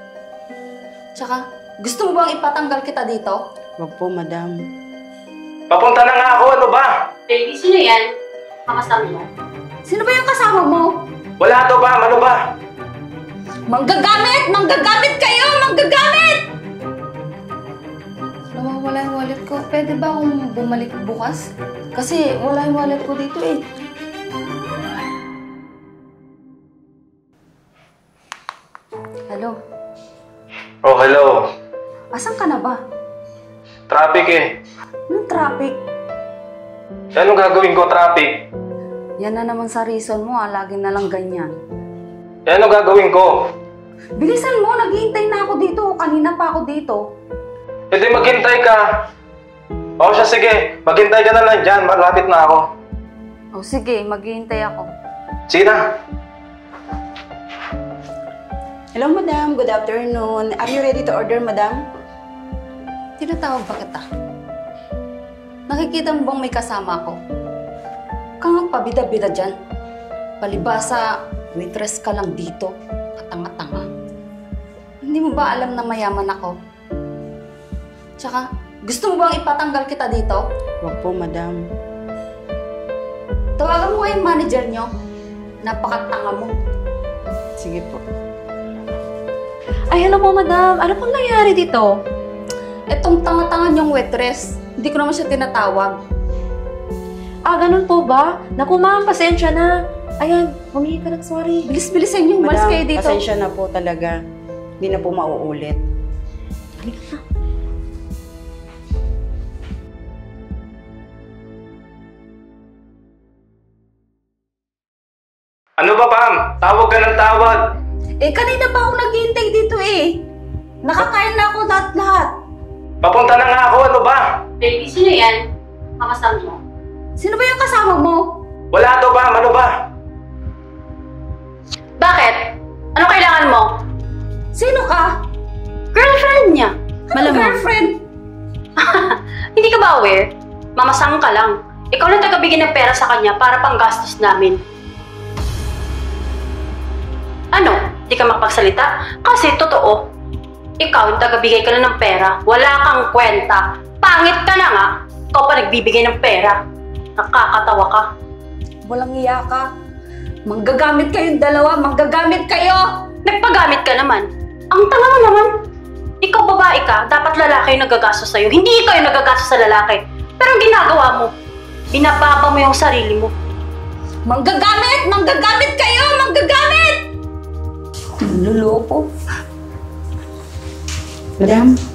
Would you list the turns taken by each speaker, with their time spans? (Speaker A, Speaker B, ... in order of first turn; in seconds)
Speaker A: 1.2-3.4, 9.9-10.9, 13.7-16.4, 18.5-23.6, 29.3-29.6, 32.1-32.8, 35.1-35.8, 39.2-41.6, 44.2-47.0, 53.5-54.9, 63.2-64.0, 65.7-67.2, 68.4-69.5, 70.4-73.9, 75.0-76.5, 78.2-80.4, 83.6-84.9, 85.6-86.5, 92.9-96.0, 101.7-103.2, 118.2-120.2, 120.8-122.3, 127.2-128.2, 134.5-135.2, 137.1-138.0, 158.8-159.7, 160.5-162.9, 174.3-177.0, 178.2-179.1
Speaker B: 3.8-4.5, 59.0-61.8, 80.8-81.6, 87.6-88.0, 102.4-104.2, 104.8-105.8, 181.4-181.8
Speaker C: 5.7-7.0, 11.4-12.4, 30.8-31.5, 33.9-34.5, 37.1-38.4, 42.5-43.5, 47.9-48.9, 50.0-52.7, 55.5-55.8, 115.8-117.7, 123.0-124.3, 128.7-129.7
Speaker D: 7.3-8.1, 8.7-9.3, 124.6-125.4, 126.0-126.6, 132.0-132.4, 132.9-133.7, 135.9-137.6, 138.8-144.6, 147.5-150.0, 150.8-156.6, 157.2-158.1, 163.2-165.5, 166.2-171.3, 171.9-173.3
Speaker E: 89.9-92.0, 97.5-101.7, 106.8-107.2